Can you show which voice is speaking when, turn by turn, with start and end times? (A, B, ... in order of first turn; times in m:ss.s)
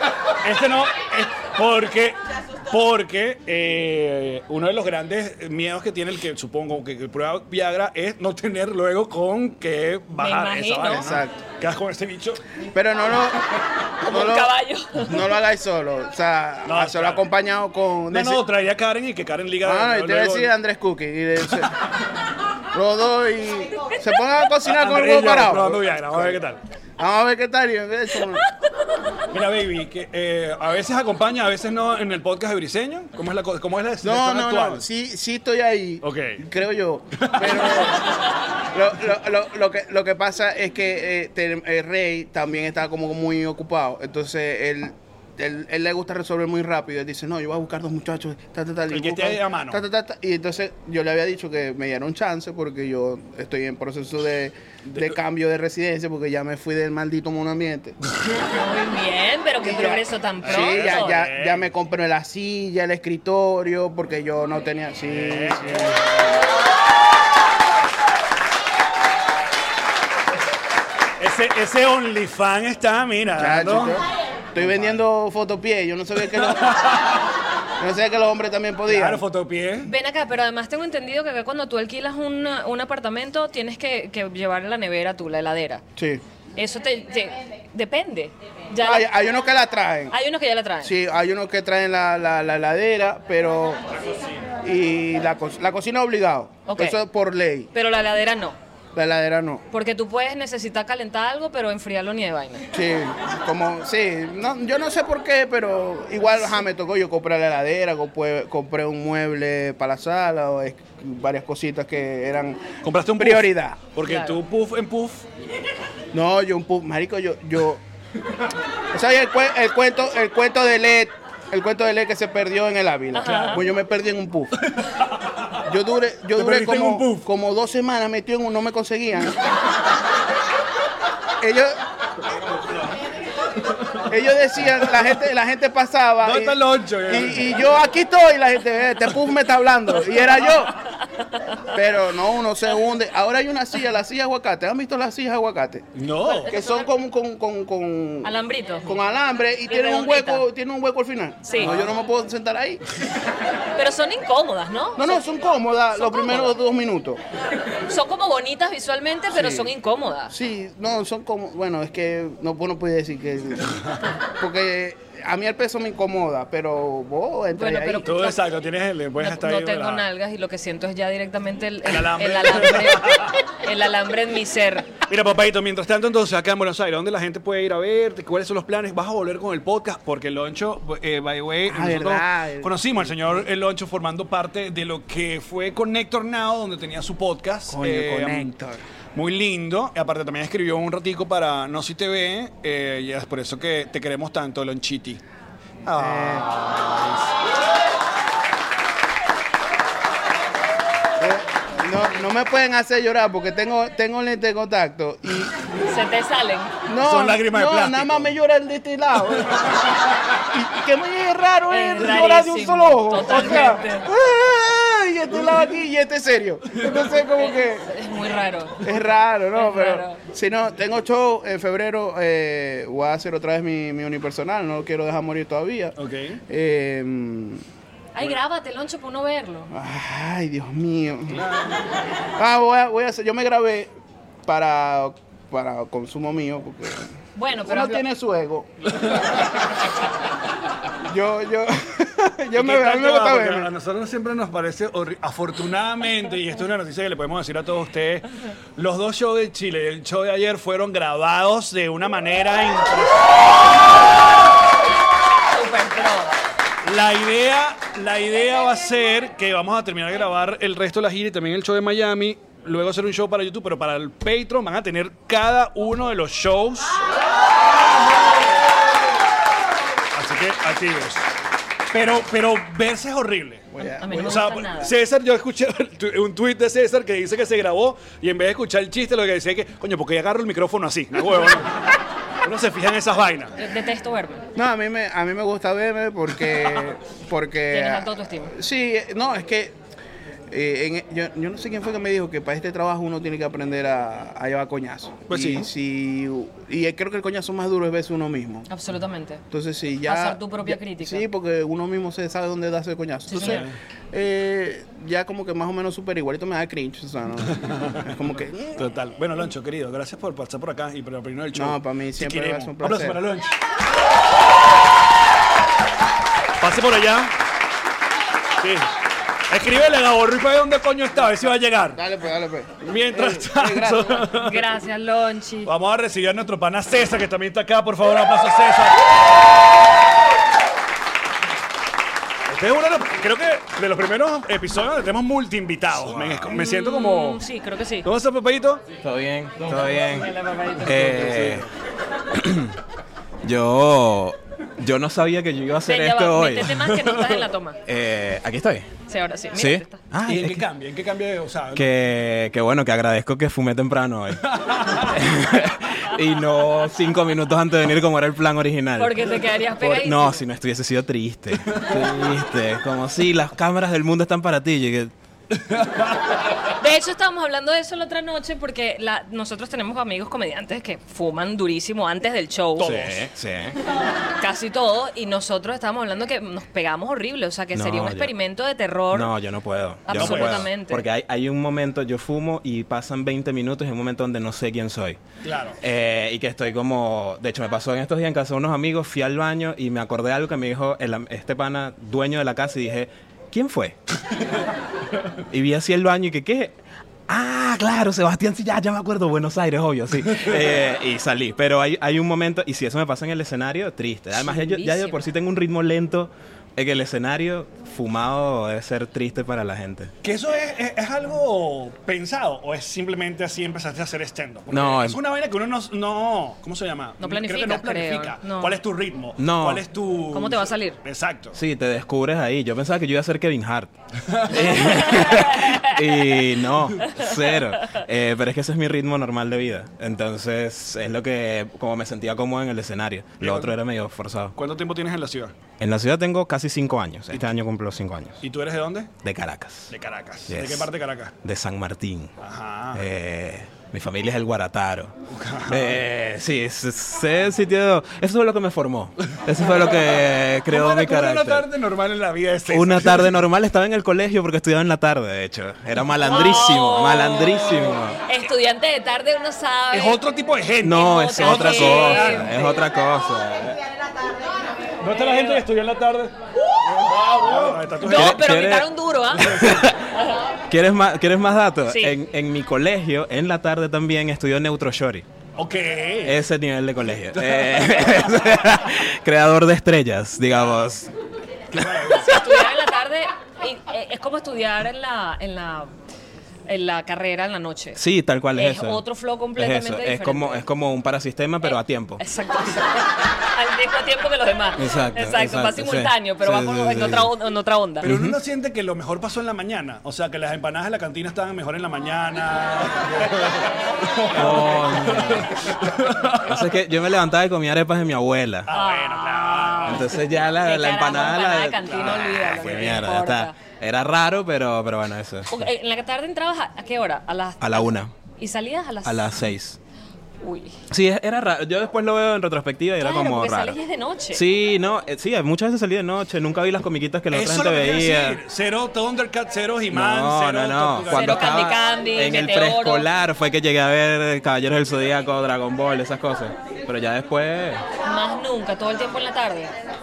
0:00.4-0:02.2 A
0:02.7-0:12.4 A
0:10.2-0:11.1 B
0:10.8-0:11.4 C
0:12.7-0:13.4 C
0:14.0-0:18.4 C
0:14.1-0:15.1 B
0:16.6-0:17.2 A
0:18.1-0:20.5 A
0:19.6-0:21.7 C
0:22.7-0:26.4 C
0:24.6-0:26.6 A
0:27.0-0:28.4 C
0:29.3-0:34.8 A
0:34.0-0:38.0 C
0:36.0-0:36.4 A
0:37.2-0:37.9 A
0:38.7-0:58.0 C
0:48.9-0:49.8 A
0:58.5-1:01.2 B
0:59.6-1:06.0 C
1:00.4-1:01.7 A
1:05.1-1:06.0 A
1:11.2-1:14.0 A
1:13.3-1:16.8 C
1:14.6-1:15.0 A
1:16.4-1:17.2 A
1:17.8-1:19.2 C
1:18.9-1:19.9 A
1:19.8-1:25.8 B
1:26.0-1:26.2 C
1:26.6-1:29.1 B
1:28.8-1:30.1 C
1:30.1-1:30.9 B
1:30.8-1:33.8 C
1:34.6-1:37.7 C
1:36.7-1:37.0 B
1:37.7-1:38.6 B
1:38.9-1:39.6 C
1:39.7-1:42.7 B
1:42.7-1:52.6 C
1:52.8-1:55.2 A
1:53.2-1:53.8 C
1:54.0-1:54.4 B
1:56.1-1:57.8 C
1:58.9-2:04.6 C
2:03.1-2:03.6 B
2:03.2-2:03.6 A
2:04.7-2:05.6 A
2:05.6-2:09.4 C
2:06.4-2:07.2 A
2:11.4-2:11.8 C
2:14.1-2:20.7 C
2:16.2-2:17.6 A
2:21.7-2:25.8 C
2:26.0-2:26.5 A
2:26.2-2:26.9 B
2:26.5-2:32.8 C
2:28.2-2:29.0 B
2:29.7-2:30.4 B
2:31.4-2:31.7 B
2:31.6-2:31.8 A
2:33.8-2:35.2 B
2:35.0-2:37.2 C
2:35.9-2:36.6 B
2:37.9-2:40.3 B
2:39.3-2:39.7 C
2:40.3-2:43.8 C
2:44.4-2:48.1 C
2:47.6-2:48.4 B
2:48.0-2:50.1 A
2:49.2-2:54.9 B
2:51.8-2:53.4 A
2:55.1-3:08.5 A
3:01.7-3:03.4 C
3:07.7-3:08.8 C
3:09.1-3:15.2 A
3:15.8-3:17.2 A
3:15.9-3:16.5 C
3:21.2-3:25.5 C
3:25.9-3:26.7 B
3:26.9-3:29.8 C
3:27.0-3:28.3 A
3:30.4-3:37.9 C
3:31.7-3:34.1 B
3:37.4-3:38.8 B
3:38.8-3:46.0 C
3:39.5-3:40.2 B
3:46.0-3:46.4 A
3:46.5-3:47.6 C
3:48.1-3:49.7 B
3:49.7-3:51.5 C
3:51.3-3:51.8 A
3:52.4-3:53.9 C
3:54.4-3:57.1 C
3:57.4-3:58.0 B
3:57.6-3:58.7 C
4:01.1-4:03.7 C
4:02.5-4:13.5 A
4:15.5-4:16.4 B
4:16.8-4:27.0 A
4:30.1-4:31.2 A
4:31.9-4:41.8 A
4:33.7-4:34.4 C
4:34.0-4:34.9 B
4:42.4-4:43.6 A
4:43.6-4:44.4 B
4:44.6-4:49.8 C
4:47.7-4:48.5 B
4:50.5-4:58.7 C
4:55.3-4:55.7 A
4:58.7-4:59.4 B
4:59.5-5:08.9 C
5:00.0-5:01.2 B
5:03.3-5:03.6 B
5:03.4-5:03.8 A
5:07.5-5:08.0 A
5:08.8-5:13.5 A
5:11.5-5:13.2 C
5:16.6-5:17.3 A
5:18.6-5:18.9 A
5:19.5-5:22.0 A
5:21.9-5:24.3 C
5:22.8-5:24.6 A
5:24.4-5:25.7 B
5:25.6-5:29.0 A
5:32.5-5:37.4 A
5:35.9-5:36.5 D
5:36.5-5:38.1 B
5:38.0-5:38.8 A
5:39.0-5:40.3 D
5:39.9-5:41.1 B
5:40.8-5:41.6 D
5:40.8-5:41.7 A
5:42.3-5:42.8 D
5:43.4-5:46.7 D
5:45.8-5:47.8 B
5:46.7-5:47.4 A
5:47.8-5:48.9 D
5:49.1-5:50.0 B
5:49.5-5:50.6 D
5:50.2-5:51.9 A
5:51.7-5:54.4 D
5:54.4-5:55.1 A
5:55.0-6:05.1 D
5:59.0-6:00.4 B
6:01.7-6:02.0 A
6:05.7-6:06.2 A
6:06.8-6:13.0 B
6:12.8-6:13.2 A
6:12.8-6:13.7 D
6:14.4-6:19.3 B
6:17.7-6:18.3 D
6:19.1-6:25.2 D
6:20.0-6:21.0 B
6:20.1-6:20.6 A
6:25.4-6:25.8 A
6:25.8-6:34.0 D
6:35.5-6:36.8 D
6:37.3-6:50.1 D
6:40.3-6:40.8 A
6:44.4-6:45.2 B
6:50.2-7:01.6 A
6:54.7-6:55.2 D
6:57.2-6:58.8 B
6:59.4-6:59.8 D
7:00.3-7:01.0 B
7:01.5-7:03.9 D
7:04.3-7:05.1 A
7:04.5-7:14.5 D
7:05.3-7:05.8 B
7:13.4-7:13.8 A
7:14.6-7:15.5 A
7:15.8-7:18.4 D
7:18.4-7:19.1 A
7:19.2-7:19.9 D
7:19.9-7:21.3 A
7:20.5-7:20.9 D
7:21.4-7:22.3 D
7:22.4-7:23.0 A
7:22.9-7:25.1 D
7:25.3-7:26.0 A
7:25.7-7:31.7 D
7:29.5-7:33.4 A
7:32.7-7:38.2 D
7:36.3-7:40.2 B
7:39.9-7:42.6 A
7:40.8-7:43.8 D
7:40.9-7:42.8 B
7:45.0-7:46.3 A
7:45.1-7:45.6 B
7:46.9-7:48.5 A
7:48.0-7:49.6 B
7:48.0-7:48.9 D
7:49.4-7:49.8 A
7:49.4-7:50.1 D
7:50.7-7:55.2 D
7:51.9-7:52.1 B
7:55.6-7:56.4 A
7:56.2-8:01.1 D
7:57.3-7:58.3 A
8:01.7-8:02.4 A
8:02.1-8:05.9 B
8:06.7-8:08.0 B
8:08.0-8:09.0 D
8:08.5-8:10.6 B
8:09.6-8:12.2 D
8:11.6-8:18.1 B
8:14.8-8:17.3 D
8:18.0-8:18.4 D
8:18.0-8:26.7 A
8:24.3-8:25.6 D
8:26.4-8:28.7 D
8:28.7-8:30.2 A
8:28.7-8:33.5 B
8:29.8-8:35.6 D
8:31.8-8:33.0 A
8:35.5-8:39.4 B
8:37.6-8:38.1 D
8:39.0-8:39.8 D
8:40.4-8:40.8 B
8:40.9-8:43.8 D
8:43.0-8:44.4 B
8:44.3-8:48.4 D
8:47.3-8:51.6 A
8:49.9-8:57.8 D
8:51.1-8:53.0 B
8:58.0-8:59.7 B